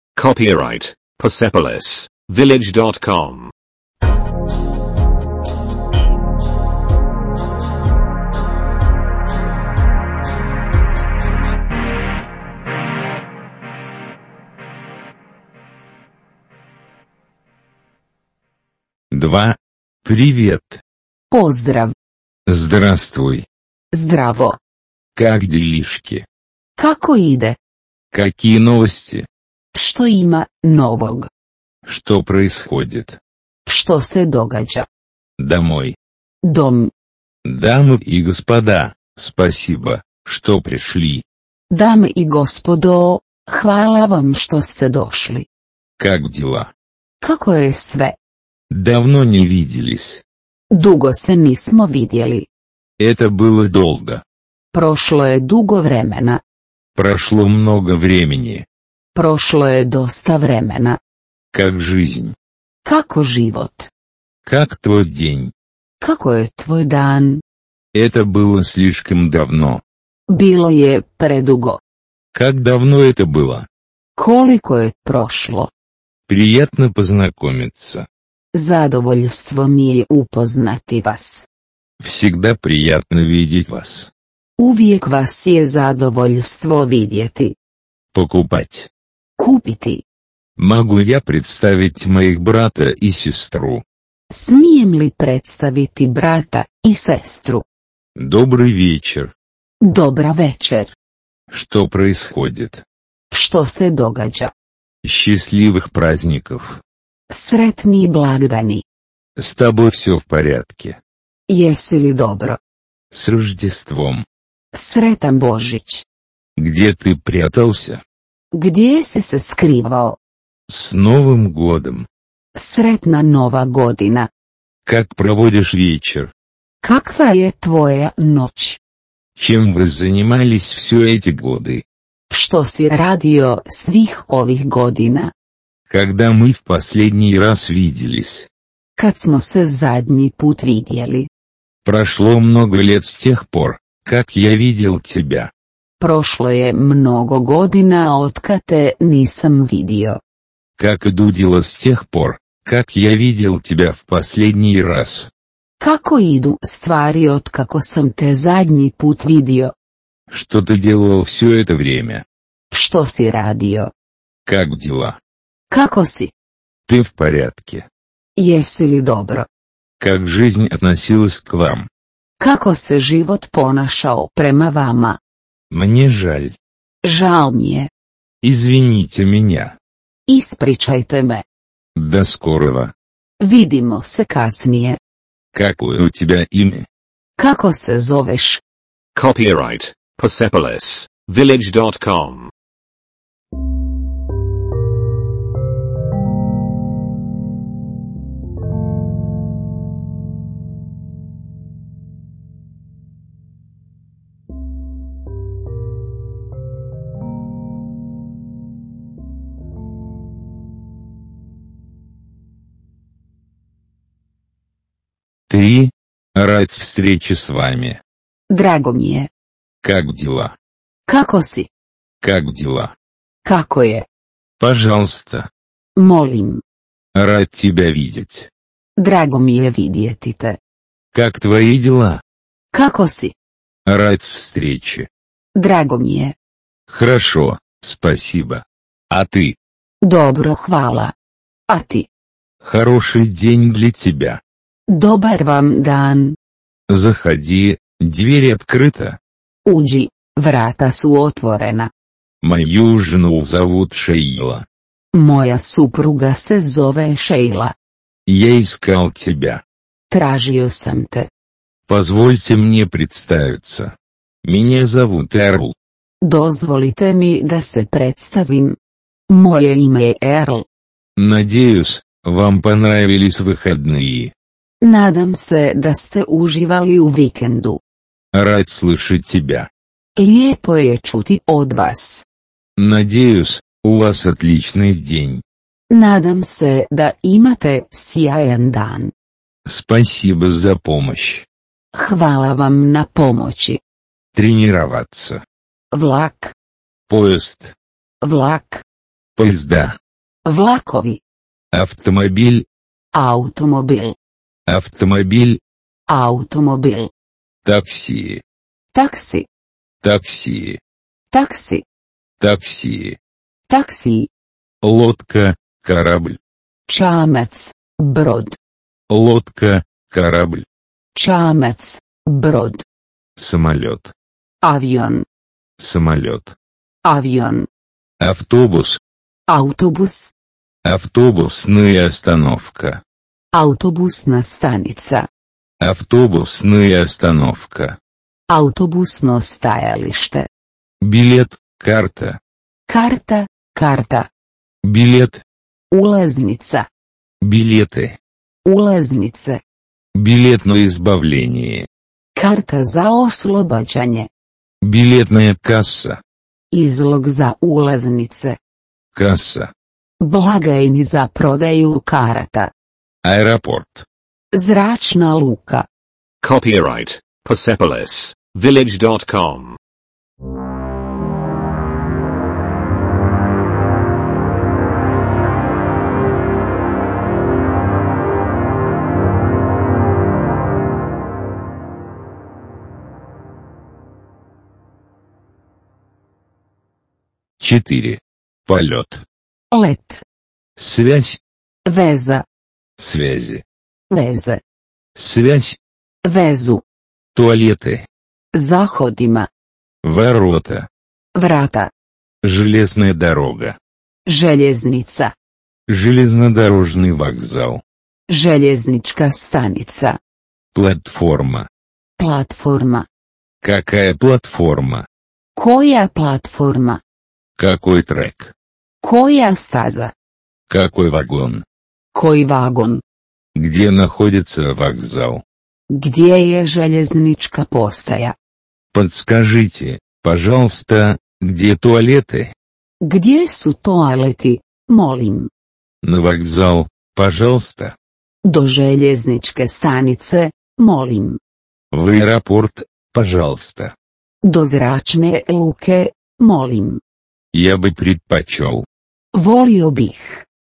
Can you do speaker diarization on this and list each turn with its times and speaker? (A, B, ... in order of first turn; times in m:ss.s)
0:00.2-0:03.5 A
0:19.1-0:20.8 B
0:21.3-0:21.9 C
0:22.4-0:23.5 B
0:23.9-0:24.6 C
0:25.1-0:26.2 B
0:26.8-0:27.6 C
0:28.1-0:29.3 B
0:29.7-0:31.3 C
0:31.8-0:33.2 B
0:33.6-0:34.9 C
0:35.4-0:36.0 B
0:36.4-0:36.9 C
0:37.4-0:41.2 B
0:41.7-0:45.5 C
0:46.0-0:46.7 B
0:47.2-0:48.2 C
0:48.7-0:50.2 B
0:50.7-0:52.5 C
0:53.0-0:54.2 B
0:54.7-0:56.4 C
0:57.0-0:58.6 B
0:59.1-1:01.0 C
1:01.5-1:02.4 B
1:02.8-1:03.9 C
1:04.4-1:05.5 B
1:06.0-1:07.4 C
1:07.9-1:09.8 B
1:10.3-1:11.8 C
1:12.3-1:13.7 B
1:14.2-1:15.7 C
1:16.3-1:18.1 B
1:18.5-1:21.5 C
1:22.0-1:24.1 B
1:24.6-1:27.5 C
1:28.1-1:28.9 B
1:29.4-1:30.0 C
1:30.6-1:33.8 B
1:34.3-1:37.6 C
1:38.2-1:39.3 B
1:39.8-1:40.9 C
1:41.5-1:42.8 B
1:43.3-1:44.5 C
1:45.0-1:46.8 B
1:47.3-1:48.8 C
1:49.4-1:51.0 B
1:51.5-1:52.6 C
1:53.1-1:54.2 B
1:54.7-1:56.0 C
1:56.6-1:58.0 B
1:58.5-2:00.2 C
2:00.7-2:02.1 B
2:02.5-2:04.3 C
2:04.8-2:06.3 B
2:06.8-2:08.8 C
2:09.4-2:11.8 B
2:12.3-2:15.3 C
2:15.9-2:18.5 B
2:19.0-2:21.3 C
2:21.8-2:25.5 B
2:26.0-2:30.2 C
2:30.8-2:35.3 B
2:35.8-2:39.7 C
2:40.3-2:42.2 B
2:42.7-2:43.9 C
2:44.4-2:45.2 B
2:45.7-2:46.3 C
2:46.9-2:47.9 B
2:48.4-2:49.5 C
2:50.0-2:51.9 B
2:52.4-2:55.2 C
2:55.7-2:56.6 B
2:57.0-2:57.9 C
2:58.4-2:59.8 B
3:00.3-3:01.4 C
3:01.9-3:02.9 B
3:03.4-3:05.0 C
3:05.5-3:06.9 B
3:07.4-3:08.6 C
3:09.1-3:12.5 A
3:35.5-3:38.0 B
3:38.5-3:39.3 C
3:39.8-3:40.6 B
3:41.1-3:41.7 C
3:42.2-3:42.9 B
3:43.4-3:44.0 C
3:44.6-3:45.5 B
3:46.0-3:46.6 C
3:47.1-3:48.5 B
3:49.0-3:50.6 C
3:51.1-3:52.2 B
3:52.7-3:53.3 C
3:53.8-3:55.1 B
3:55.6-3:56.3 C
3:56.9-3:59.6 B
4:00.0-4:01.1 C
4:01.7-4:02.1 C
4:02.6-4:04.4 B
4:04.9-4:06.4 C
4:06.9-4:09.2 B
4:09.6-4:11.9 C
4:12.4-4:14.6 B
4:15.1-4:17.7 C
4:18.3-4:19.6 B
4:20.1-4:21.3 C
4:21.9-4:25.7 B
4:26.2-4:28.8 C
4:29.3-4:30.6 C
4:31.2-4:34.3 B
4:34.8-4:37.8 C
4:38.3-4:39.7 B
4:40.2-4:42.2 C
4:42.8-4:45.4 B
4:45.9-4:49.1 C
4:49.6-4:51.4 B
4:51.9-4:53.8 C
4:54.3-4:55.4 B
4:55.9-4:56.5 C
4:57.1-4:57.7 B
4:58.2-4:58.8 C
4:59.4-5:00.0 B
5:00.4-5:01.2 C
5:01.7-5:02.6 B
5:03.1-5:04.2 C
5:04.7-5:05.6 B
5:06.1-5:07.1 C
5:07.6-5:08.4 B
5:08.9-5:09.5 C
5:10.0-5:10.8 B
5:11.3-5:11.8 C
5:12.4-5:13.2 B
5:13.7-5:14.3 C
5:14.8-5:16.4 B
5:16.9-5:18.6 C
5:19.1-5:20.6 B
5:21.2-5:22.8 C
5:23.4-5:24.1 B
5:24.6-5:25.2 C
5:25.8-5:26.6 B
5:27.0-5:27.7 C
5:28.2-5:29.0 B
5:29.5-5:30.3 C
5:30.8-5:33.0 B
5:33.5-5:35.3 C
5:35.8-5:38.0 B
5:38.5-5:40.5 C
5:41.0-5:42.4 B
5:42.9-5:44.3 C
5:44.8-5:45.4 B
5:45.9-5:46.9 C
5:47.4-5:48.2 B
5:48.6-5:49.6 C
5:50.1-5:51.9 B
5:52.4-5:54.3 C
5:54.8-5:56.2 B
5:56.7-5:58.6 C
5:59.1-5:59.7 B
6:00.2-6:02.7 C
6:03.2-6:04.0 B
6:04.5-6:05.8 C
6:06.4-6:09.8 A
6:27.6-6:29.2 B
6:29.7-6:30.2 C
6:30.8-6:31.4 B
6:31.8-6:32.4 C
6:33.0-6:33.6 B
6:34.1-6:34.6 C
6:35.2-6:35.8 B
6:36.2-6:36.8 C
6:37.3-6:38.1 B
6:38.5-6:39.5 C
6:40.0-6:40.9 B
6:41.3-6:41.9 C
6:42.4-6:43.8 B
6:44.3-6:45.3 C
6:45.9-6:47.8 B
6:48.3-6:50.2 C
6:50.7-6:51.7 B
6:52.2-6:53.1 C
6:53.6-6:55.1 B
6:55.6-6:57.0 C
6:57.6-6:58.5 B
6:59.0-7:00.1 C
7:00.7-7:01.6 B
7:02.1-7:03.0 C
7:03.5-7:05.4 B
7:05.9-7:08.4 C
7:08.9-7:12.5 B
7:13.0-7:15.5 C
7:16.0-7:18.0 B
7:18.4-7:21.4 C
7:21.9-7:23.9 B
7:24.4-7:27.0 C
7:27.5-7:28.8 B
7:29.3-7:30.4 C